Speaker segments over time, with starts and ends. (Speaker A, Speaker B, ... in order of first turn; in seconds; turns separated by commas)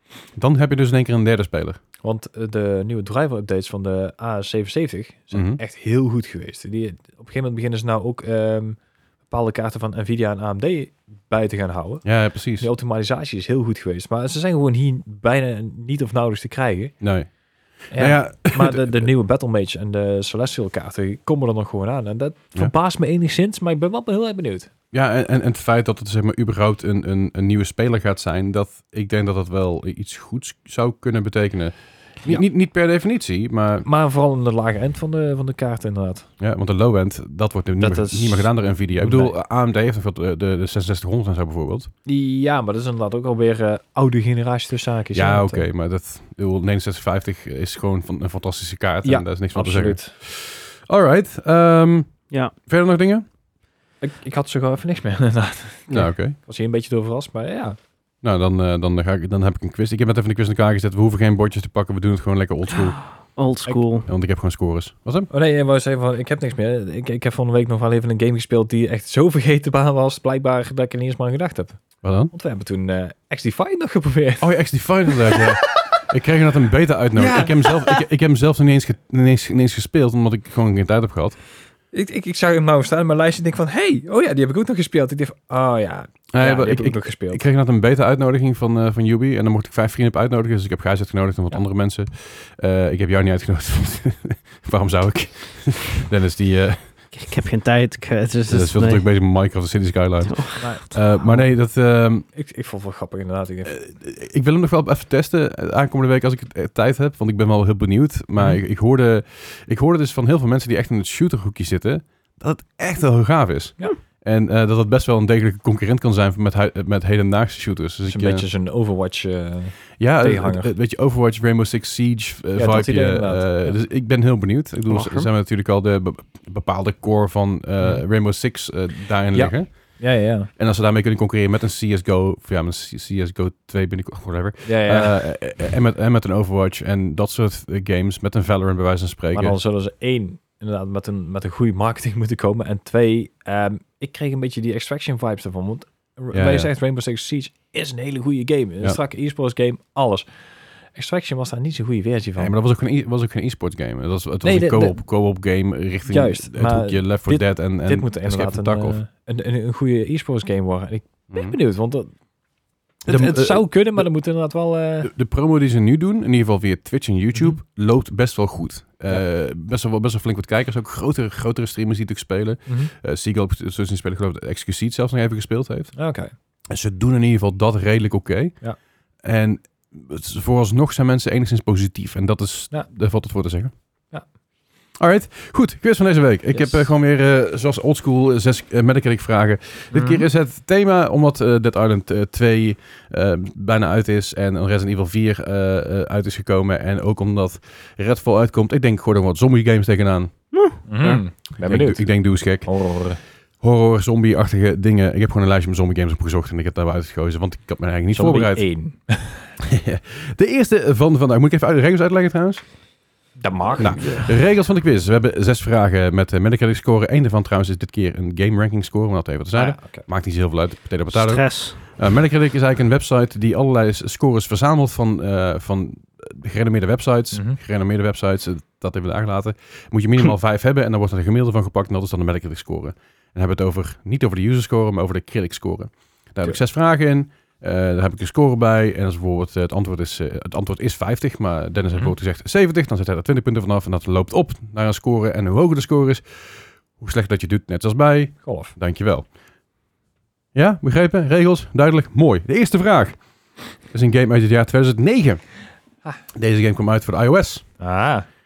Speaker A: 0.3-1.8, Speaker B: 2.0-17.0, Speaker A: 5.3-5.6, Speaker A: 12.0-12.7, Speaker A: 17.0-19.1, Speaker B: 17.9-24.7, Speaker A: 24.9-33.9, Speaker B: 33.9-36.3, Speaker A: 36.4-41.9, Speaker B: 37.8-39.4, Speaker B: 42.0-45.6, Speaker A: 45.1-53.2, Speaker B: 49.0-50.1, Speaker B: 54.0-57.8, Speaker A: 55.9-56.4, Speaker A: 58.2-63.0, Speaker C: 63.3-64.1, Speaker A: 64.1-65.3, Speaker B: 65.3-75.5, Speaker A: 72.0-72.3, Speaker A: 74.4-81.4, Speaker B: 77.2-78.0, Speaker B: 81.9-87.4, Speaker A: 86.3-97.1, Speaker C: 97.1-99.1, Speaker A: 98.5-102.3, Speaker C: 100.2-101.4, Speaker B: 100.6-101.5, Speaker B: 102.3-103.8, Speaker A: 103.7-118.5, Speaker B: 118.1-120.7, Speaker A: 120.0-139.6, Speaker B: 122.6-123.8, Speaker C: 124.9-125.3, Speaker B: 127.8-128.1, Speaker B: 129.3-130.5, Speaker B: 134.6-135.2, Speaker B: 139.3-150.3, Speaker A: 146.3-146.7, Speaker B: 150.9-152.5, Speaker A: 152.4-159.0, Speaker B: 154.4-155.1, Speaker B: 156.1-162.1, Speaker A: 161.3-161.6, Speaker A: 163.1-164.1, Speaker B: 163.1-165.1, Speaker A: 165.0-176.0, Speaker B: 172.7-172.9, Speaker B: 175.9-176.3, Speaker A: 176.7-178.7, Speaker A: 179.2-183.7, Speaker A: 185.0-200.3, Speaker B: 186.5-186.9, Speaker B: 189.9-190.3, Speaker C: 200.5-201.2, Speaker B: 200.9-203.2, Speaker A: 201.6-203.0, Speaker A: 203.6-208.7, Speaker B: 208.1-209.6, Speaker A: 209.6-212.7, Speaker B: 213.4-214.2, Speaker C: 213.8-214.3, Speaker A: 213.8-249.3, Speaker B: 219.5-220.1, Speaker C: 221.1-221.8, Speaker B: 227.3-227.6, Speaker B: 248.4-248.8, Speaker A: 250.5-255.6, Speaker A: 256.3-257.7, Speaker B: 257.8-258.3